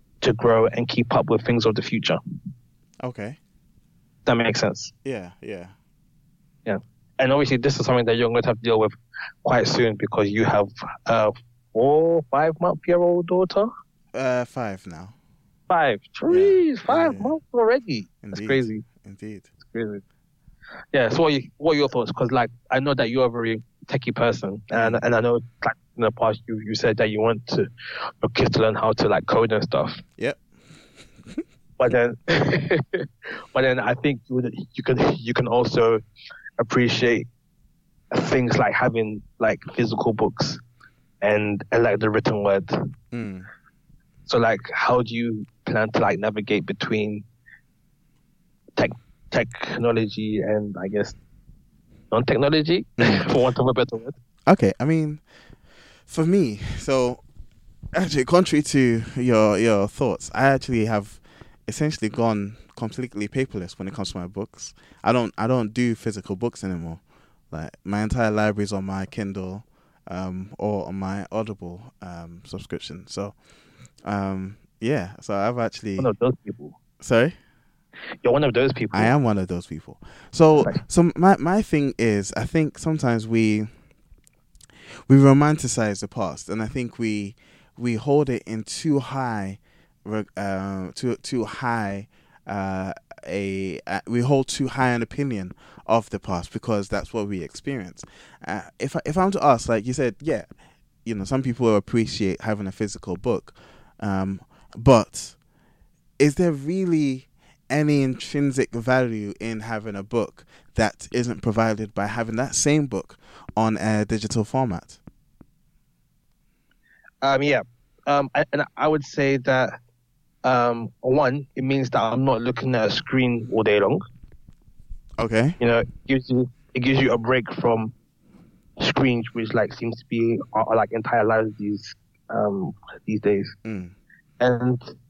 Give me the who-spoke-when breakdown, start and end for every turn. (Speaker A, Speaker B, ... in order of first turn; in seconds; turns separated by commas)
Speaker A: 0.2-2.2, Speaker B: 3.0-3.4, Speaker A: 4.3-4.9, Speaker B: 5.0-5.7, Speaker A: 6.7-13.7, Speaker B: 14.1-15.2, Speaker A: 15.7-18.9, Speaker B: 16.3-17.4, Speaker B: 18.2-19.5, Speaker A: 19.6-20.0, Speaker A: 20.9-27.7, Speaker B: 24.7-25.0, Speaker A: 28.2-30.0, Speaker A: 31.8-36.0, Speaker A: 36.6-37.3, Speaker A: 38.1-40.6, Speaker A: 41.2-42.7, Speaker B: 43.1-43.5, Speaker A: 44.3-47.2, Speaker A: 48.8-51.2, Speaker A: 52.1-54.2, Speaker B: 53.0-53.3, Speaker B: 54.5-55.2, Speaker B: 56.1-57.2, Speaker B: 57.9-73.3, Speaker B: 74.0-76.1, Speaker A: 76.0-76.8, Speaker B: 77.0-77.3, Speaker A: 78.2-79.1, Speaker B: 78.9-83.7, Speaker B: 85.1-100.5, Speaker B: 101.0-105.4, Speaker B: 106.2-115.0, Speaker A: 117.2-119.8, Speaker A: 120.4-124.0, Speaker B: 125.2-125.6, Speaker A: 125.6-127.9, Speaker A: 128.8-133.5, Speaker B: 133.7-133.9, Speaker A: 134.4-134.8